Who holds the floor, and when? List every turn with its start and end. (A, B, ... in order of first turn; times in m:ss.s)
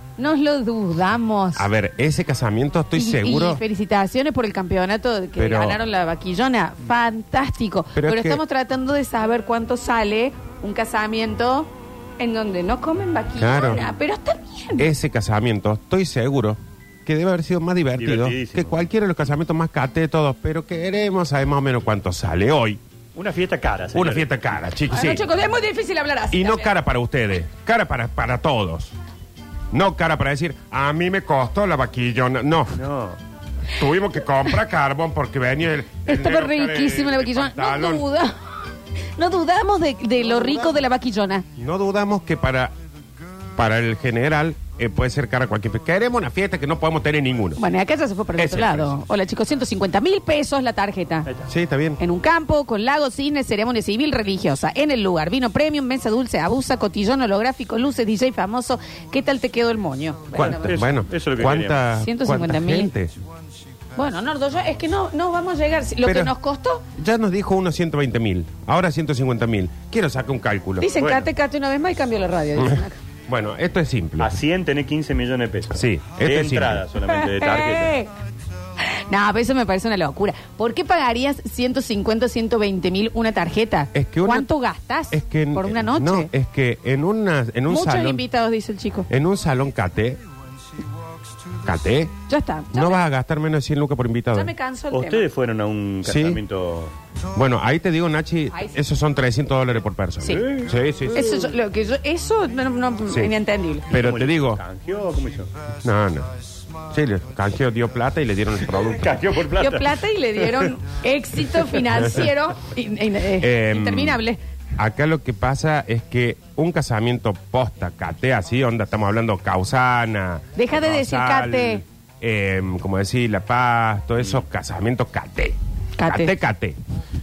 0:00.2-0:01.7 A
0:01.6-0:03.6 B
0:03.0-0:14.9 A
0:05.4-0:05.8 B
0:07.9-0:08.4 B
0:13.4-0:13.8 B
0:14.8-0:22.8 B
0:18.0-0:18.8 C
0:23.1-0:24.3 C
0:23.9-0:25.2 B
0:24.9-0:26.7 A
0:26.3-0:28.9 B
0:29.7-0:32.8 B
0:32.7-0:33.2 C
0:33.7-0:38.0 B
0:36.0-0:38.5 A
0:39.2-0:41.4 A
0:40.3-0:40.8 B
0:41.6-0:42.7 B
0:43.6-0:47.6 B
0:47.6-0:51.3 A
0:48.4-0:48.9 B
0:51.5-0:52.0 B
0:52.0-1:00.7 A
1:00.3-1:01.8 C
1:00.4-1:03.1 B
1:02.0-1:02.9 A
1:04.0-1:06.8 A
1:06.0-1:06.3 B
1:07.0-1:10.9 B
1:10.8-1:13.0 A
1:11.0-1:11.3 C
1:12.6-1:14.4 B
1:14.2-1:18.0 C
1:15.7-1:16.8 B
1:17.0-1:18.1 A
1:18.8-1:26.3 A
1:23.9-1:24.5 B
1:25.1-1:28.2 B
1:27.7-1:29.1 A
1:29.1-1:30.2 B
1:31.6-1:32.1 B
1:32.3-1:33.0 A
1:32.7-1:34.5 B
1:34.3-1:35.2 A
1:34.9-1:36.9 C
1:36.0-1:36.4 B
1:37.3-1:41.3 B
1:40.2-1:40.5 A
1:40.3-1:41.4 C
1:41.1-1:43.9 A
1:43.1-1:43.4 B
1:43.9-1:44.6 B
1:43.9-1:45.5 C
1:45.8-1:46.3 B
1:46.9-1:49.2 B
1:48.8-1:50.7 C
1:49.5-1:54.4 A
1:51.6-1:51.9 C
1:53.4-1:54.2 B
1:54.8-2:06.8 B
2:00.6-2:01.8 A
2:06.0-2:06.3 A